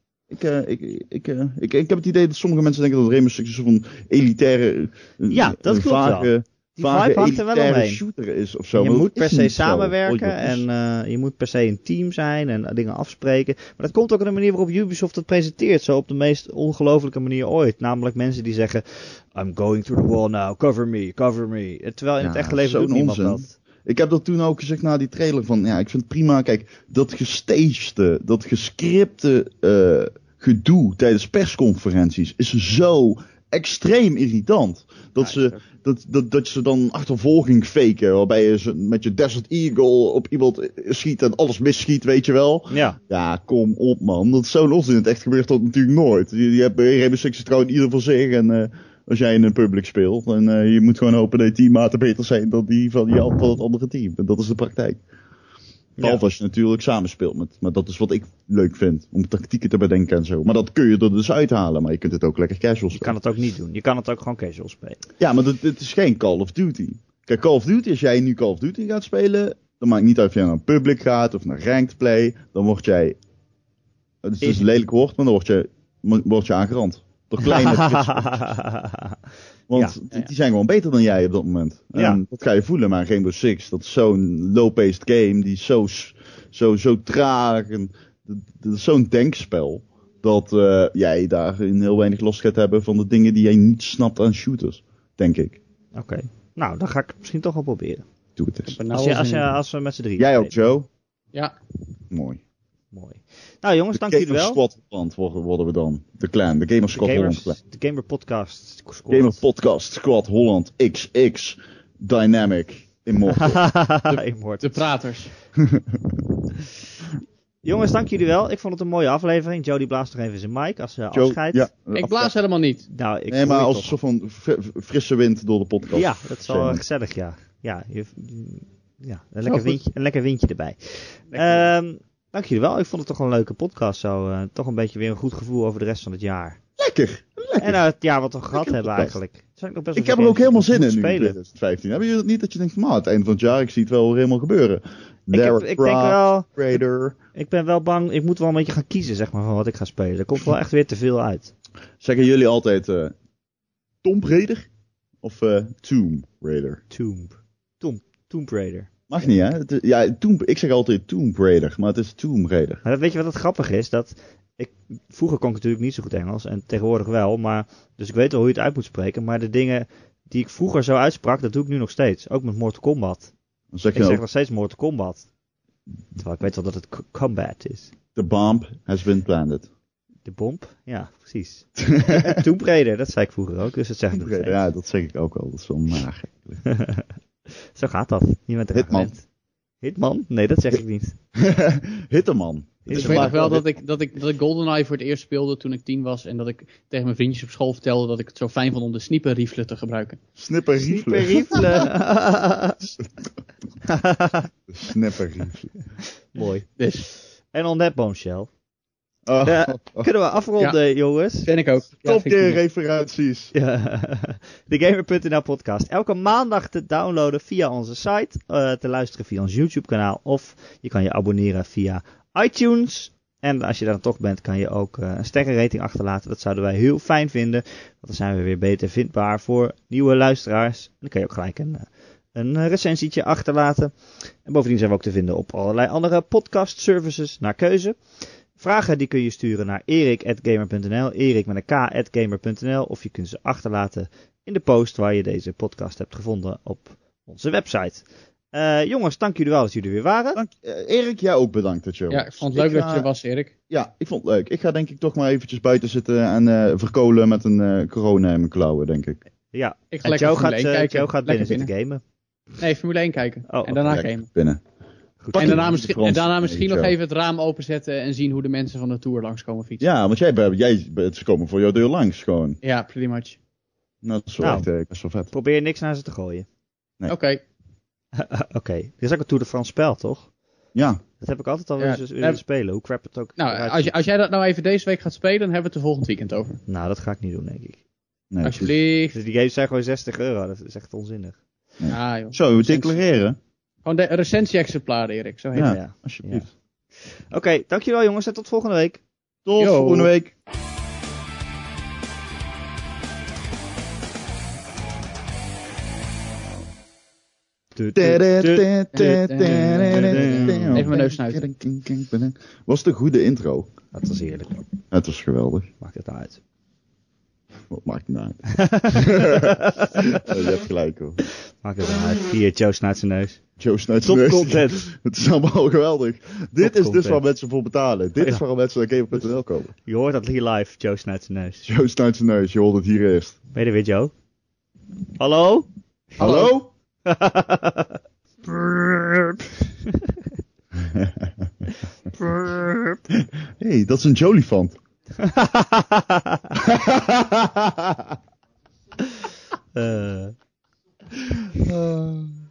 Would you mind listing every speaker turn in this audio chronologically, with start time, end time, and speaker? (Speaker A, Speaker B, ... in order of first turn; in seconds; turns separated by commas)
Speaker A: 0.3-10.6, Speaker B: 5.3-8.0, Speaker B: 8.7-23.6, Speaker A: 22.2-55.0, Speaker B: 35.2-35.6, Speaker B: 42.7-43.0, Speaker A: 56.0-63.1, Speaker B: 63.0-65.0, Speaker A: 65.2-73.2, Speaker A: 74.2-78.4, Speaker B: 77.4-79.2, Speaker A: 79.7-95.6, Speaker B: 82.0-82.2, Speaker B: 96.0-98.0, Speaker A: 98.4-98.8, Speaker C: 98.7-99.5, Speaker B: 98.9-100.5, Speaker A: 100.2-100.9, Speaker A: 102.1-102.4, Speaker B: 102.9-104.6, Speaker A: 103.9-107.6, Speaker B: 106.9-109.4, Speaker A: 109.1-113.6, Speaker B: 113.3-114.9, Speaker C: 114.6-115.3, Speaker A: 115.6-116.2, Speaker B: 117.6-121.7, Speaker A: 121.1-122.3, Speaker C: 122.0-122.9, Speaker B: 122.9-124.0, Speaker A: 123.3-126.8, Speaker B: 125.9-136.6, Speaker C: 131.3-131.7, Speaker A: 136.8-137.8, Speaker B: 137.6-141.4, Speaker A: 138.5-139.2, Speaker A: 140.0-147.2, Speaker B: 145.3-146.5, Speaker B: 147.3-151.5, Speaker A: 152.0-153.2, Speaker A: 154.0-154.7, Speaker A: 155.2-156.8, Speaker B: 156.9-158.9, Speaker A: 159.1-162.8, Speaker B: 162.8-173.3, Speaker A: 173.7-174.2, Speaker B: 173.9-175.3, Speaker B: 176.2-177.9, Speaker A: 178.2-179.7, Speaker B: 180.3-184.6, Speaker A: 181.8-182.4, Speaker A: 184.1-186.6, Speaker B: 186.7-187.1, Speaker B: 187.7-189.3, Speaker A: 188.7-189.1, Speaker B: 189.8-191.2, Speaker A: 191.3-193.7, Speaker B: 192.9-193.5, Speaker C: 192.9-200.2, Speaker A: 200.4-201.7, Speaker B: 200.9-202.9, Speaker B: 203.8-204.5, Speaker A: 204.7-205.8, Speaker B: 206.3-208.5, Speaker C: 206.8-207.1, Speaker A: 209.3-210.1, Speaker B: 209.4-211.5, Speaker C: 211.4-212.6, Speaker A: 212.1-213.5, Speaker B: 213.5-250.4, Speaker A: 250.3-253.1, Speaker C: 252.1-253.5, Speaker A: 253.7-259.2, Speaker B: 259.5-262.0, Speaker C: 259.9-261.7, Speaker C: 262.6-264.3, Speaker B: 263.5-264.0, Speaker A: 263.9-264.6, Speaker B: 265.2-265.7, Speaker A: 265.3-266.9, Speaker C: 265.4-269.8, Speaker A: 269.8-272.6, Speaker C: 272.6-273.4, Speaker A: 274.0-275.3, Speaker B: 274.4-274.7, Speaker B: 275.3-276.5, Speaker C: 277.1-277.4, Speaker B: 278.1-280.3, Speaker A: 280.8-281.0, Speaker B: 281.2-283.9, Speaker C: 281.8-282.4, Speaker C: 283.4-286.6, Speaker B: 286.7-287.8, Speaker A: 288.3-288.7, Speaker C: 288.4-289.1, Speaker B: 289.1-291.4, Speaker A: 291.8-293.4, Speaker C: 291.9-293.0, Speaker C: 293.9-295.8, Speaker A: 295.5-296.5, Speaker B: 295.6-299.0, Speaker A: 299.5-300.3, Speaker C: 299.6-300.1, Speaker B: 307.8-310.9, Speaker A: 307.9-313.7, Speaker C: 308.9-311.5, Speaker B: 313.9-314.7, Speaker A: 314.9-315.7, Speaker B: 315.8-316.4, Speaker A: 317.7-321.2, Speaker B: 318.5-320.3, Speaker B: 321.5-323.4, Speaker A: 323.6-329.7, Speaker B: 324.0-324.9, Speaker B: 326.6-327.2, Speaker B: 329.9-331.7, Speaker A: 331.6-333.4, Speaker B: 333.5-334.1, Speaker B: 335.2-336.5, Speaker A: 336.2-336.7, Speaker C: 336.2-336.5, Speaker B: 337.1-339.6, Speaker A: 340.8-341.5, Speaker B: 342.2-343.0, Speaker A: 343.1-344.8, Speaker B: 345.2-346.6, Speaker A: 346.6-348.2, Speaker B: 349.7-350.4, Speaker A: 351.6-352.3